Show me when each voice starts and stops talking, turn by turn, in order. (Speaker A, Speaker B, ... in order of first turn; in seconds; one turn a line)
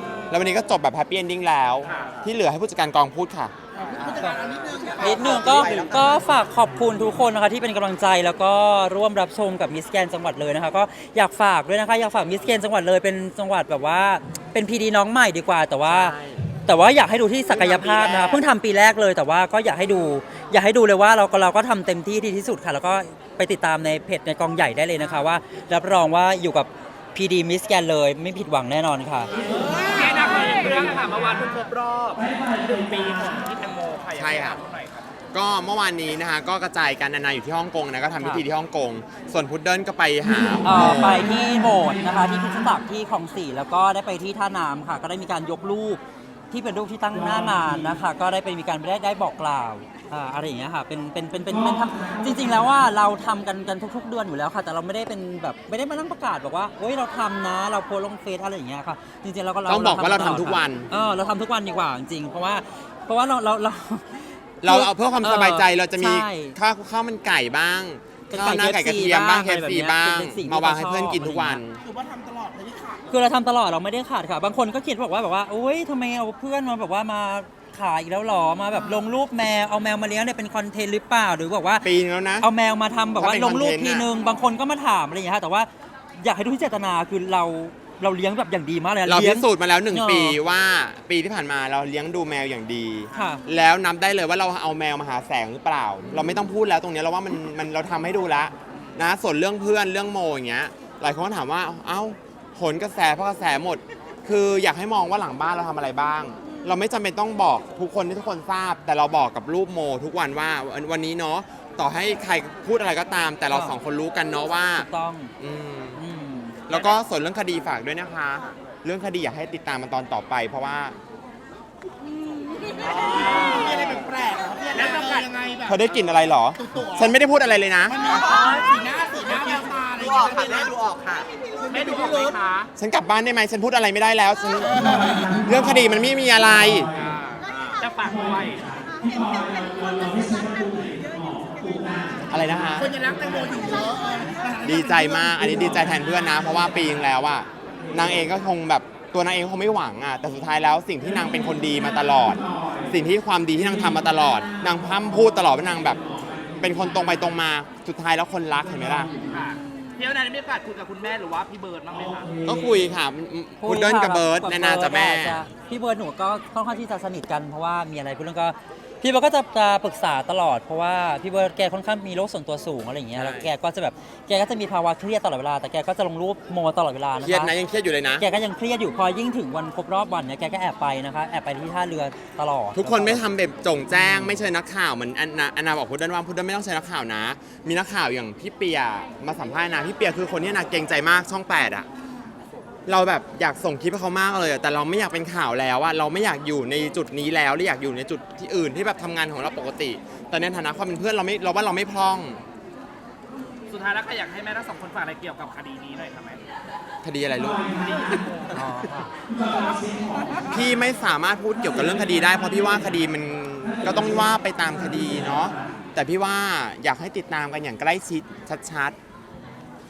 Speaker A: 0.3-3.5
Speaker B: 1.8-2.1
Speaker C: 3.8-5.7
Speaker D: 4.0-4.4
Speaker E: 5.0-6.4
Speaker D: 5.0-29.3
Speaker A: 15.8-16.4
Speaker A: 17.6-18.4
Speaker B: 29.6-35.1
Speaker A: 34.1-34.6
Speaker A: 35.3-41.3
Speaker D: 38.2-38.4
Speaker D: 40.6-66.5
Speaker A: 59.6-60.9
Speaker A: 64.6-71.8
Speaker D: 68.3-71.6
Speaker C: 71.8-73.3
Speaker D: 73.1-81.9
Speaker A: 81.8-82.5
Speaker D: 82.4-90.4
Speaker A: 83.2-84.1
Speaker A: 89.0-116.0
Speaker D: 93.1-93.4
Speaker D: 113.5-113.8
Speaker D: 114.7-115.3
Speaker D: 116.0-116.9
Speaker A: 116.7-121.0
Speaker E: 122.8-123.8
Speaker B: 122.8-123.6
Speaker C: 123.5-125.8
Speaker B: 124.7-125.3
Speaker A: 125.7-128.1
Speaker C: 126.5-127.1
Speaker C: 127.9-130.7
Speaker E: 128.0-128.7
Speaker E: 129.2-131.3
Speaker C: 131.6-132.4
Speaker B: 131.7-132.7
Speaker A: 132.8-136.9
Speaker B: 136.9-138.8
Speaker F: 139.0-142.1
Speaker A: 142.3-142.9
Speaker C: 142.8-145.7
Speaker A: 144.6-156.0
Speaker A: 156.6-159.1
Speaker B: 159.3-162.4
Speaker A: 162.4-165.5
Speaker D: 163.6-177.5
Speaker A: 173.1-173.5
Speaker A: 177.2-178.2
Speaker D: 178.2-183.2
Speaker A: 182.7-191.9
Speaker D: 184.0-184.4
Speaker A: 192.8-202.4
Speaker B: 203.7-206.4
Speaker A: 207.0-208.4
Speaker D: 208.5-209.1
Speaker A: 210.5-219.0